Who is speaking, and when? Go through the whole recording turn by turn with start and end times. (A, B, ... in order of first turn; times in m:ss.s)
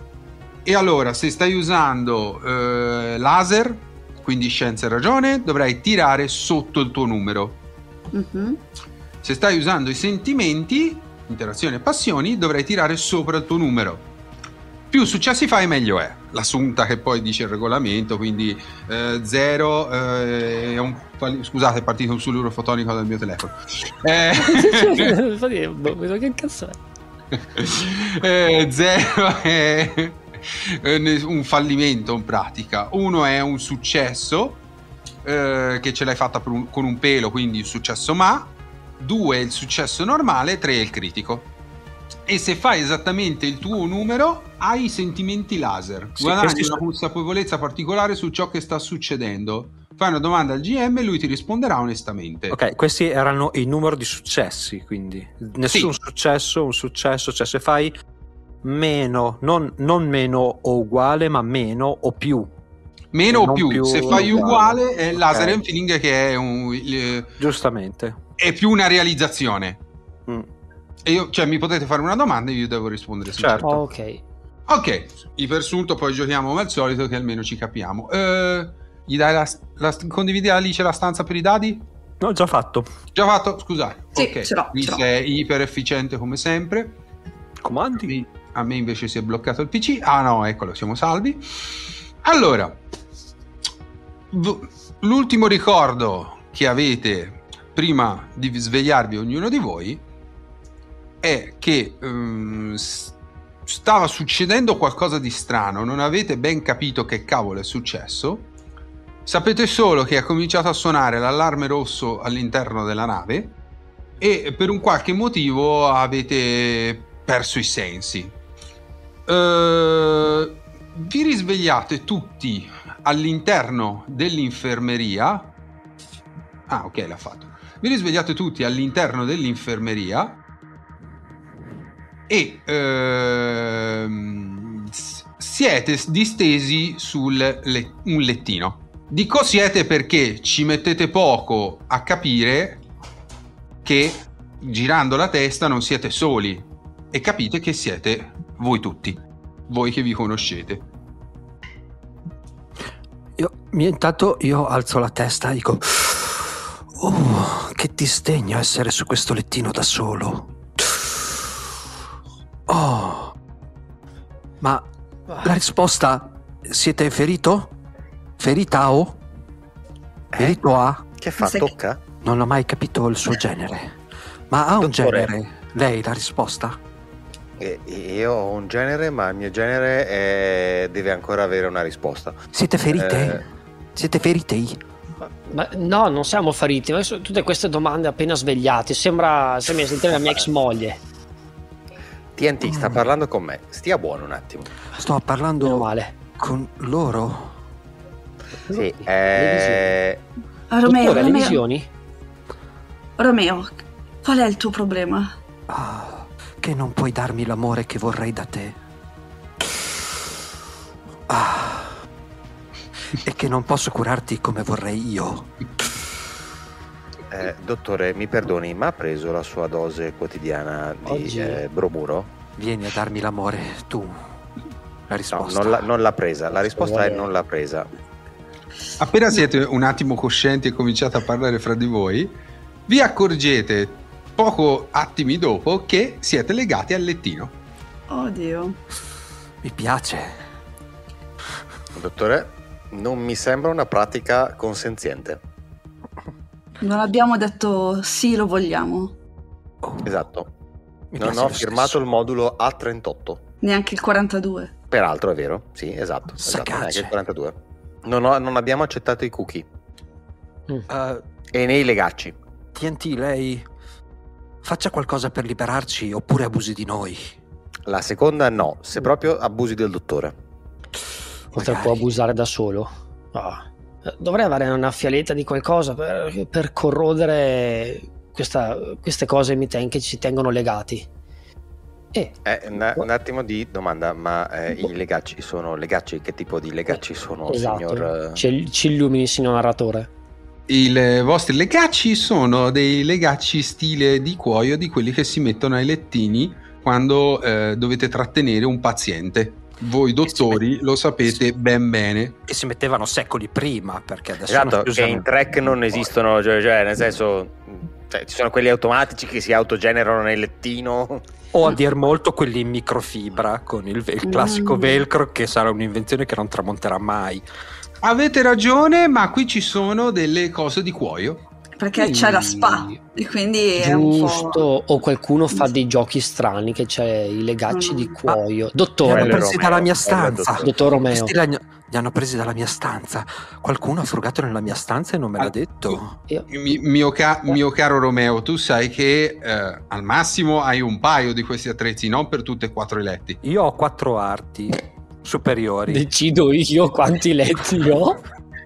0:00.7-0:07.6 A
0:08.1-0:08.6 B
0:09.2-0:14.1 A
0:14.9-0:25.2 A
0:24.4-0:26.8 C
0:27.6-0:34.6 A
0:35.2-0:41.5 A
0:42.3-0:52.6 A
0:46.2-0:46.8 D
0:52.5-0:57.9 D
0:58.6-1:02.5 D
1:03.1-1:07.3 A
1:03.3-1:05.6 D
1:07.4-1:08.2 D
1:08.4-1:09.8 A
1:11.0-1:13.8 A
1:13.3-1:13.7 D
1:13.6-1:14.2 C
1:14.7-1:21.9 A
1:22.2-1:22.9 D
1:23.2-1:27.0 A
1:24.2-1:25.0 B
1:27.6-1:28.2 D
1:28.1-1:32.8 A
1:34.3-1:40.0 A
1:41.2-1:43.2 A
1:43.7-1:48.5 A
1:49.3-1:53.6 A
1:54.2-1:58.3 A
1:59.3-2:05.5 A
2:06.7-2:10.4 A
2:12.3-2:22.8 A
2:23.8-2:30.8 A
2:33.4-2:41.5 D
2:42.7-2:43.4 D
2:44.6-2:44.9 D
2:45.4-2:47.8 D
2:48.4-2:49.2 D
2:50.3-2:50.6 E
2:50.4-2:51.0 D
2:51.2-2:52.0 E
2:51.4-2:51.7 B
2:52.2-2:54.0 D
2:54.5-2:56.8 D
2:54.8-2:55.3 E
2:57.6-3:03.4 E
3:02.5-3:04.8 D
3:05.2-3:11.0 C
3:12.4-3:14.7 E
3:12.6-3:13.0 D
3:14.9-3:17.6 D
3:15.6-3:16.1 C
3:18.7-3:19.9 C
3:18.7-3:20.2 E
3:20.7-3:21.6 B
3:20.8-3:21.9 C
3:23.2-3:25.3 B
3:25.7-3:28.8 D
3:29.6-3:30.2 D
3:31.3-3:32.0 D
3:33.2-3:35.9 D
3:37.3-3:42.3 E
3:41.1-3:41.6 C
3:42.6-3:44.3 D
3:45.1-3:45.9 D
3:45.3-3:47.9 E
3:46.5-3:47.3 C
3:49.0-3:52.4 A
3:52.9-3:57.5 A
3:58.1-3:58.8 B
3:59.6-4:00.4 D
4:01.9-4:05.4 E
4:06.8-4:09.1 B
4:09.8-4:10.2 D
4:10.0-4:10.5 E
4:11.1-4:12.0 D
4:11.2-4:13.4 E
4:13.6-4:14.7 B
4:14.9-4:19.6 E
4:16.4-4:17.1 D
4:20.9-4:21.2 D
4:21.5-4:22.4 E
4:22.7-4:23.7 D
4:24.6-4:27.4 D
4:27.9-4:30.3 E
4:31.5-4:32.0 D
4:31.6-4:41.1 C
4:42.5-4:48.4 E
4:46.9-4:50.1 C
4:50.7-5:02.4 A
5:00.3-5:00.6 D
5:02.5-5:06.1 D
5:04.5-5:11.2 E
5:11.5-5:17.4 D
5:14.2-5:15.0 B
5:18.0-5:21.4 A
5:21.8-5:24.6 B
5:22.0-5:23.0 C
5:23.8-5:29.5 C
5:27.7-5:28.1 B
5:29.0-5:36.2 D
5:29.1-5:30.7 E
5:30.6-5:31.3 C
5:35.4-5:36.0 A
5:36.5-5:43.4 A
5:43.4-5:46.1 D
5:45.9-5:48.2 C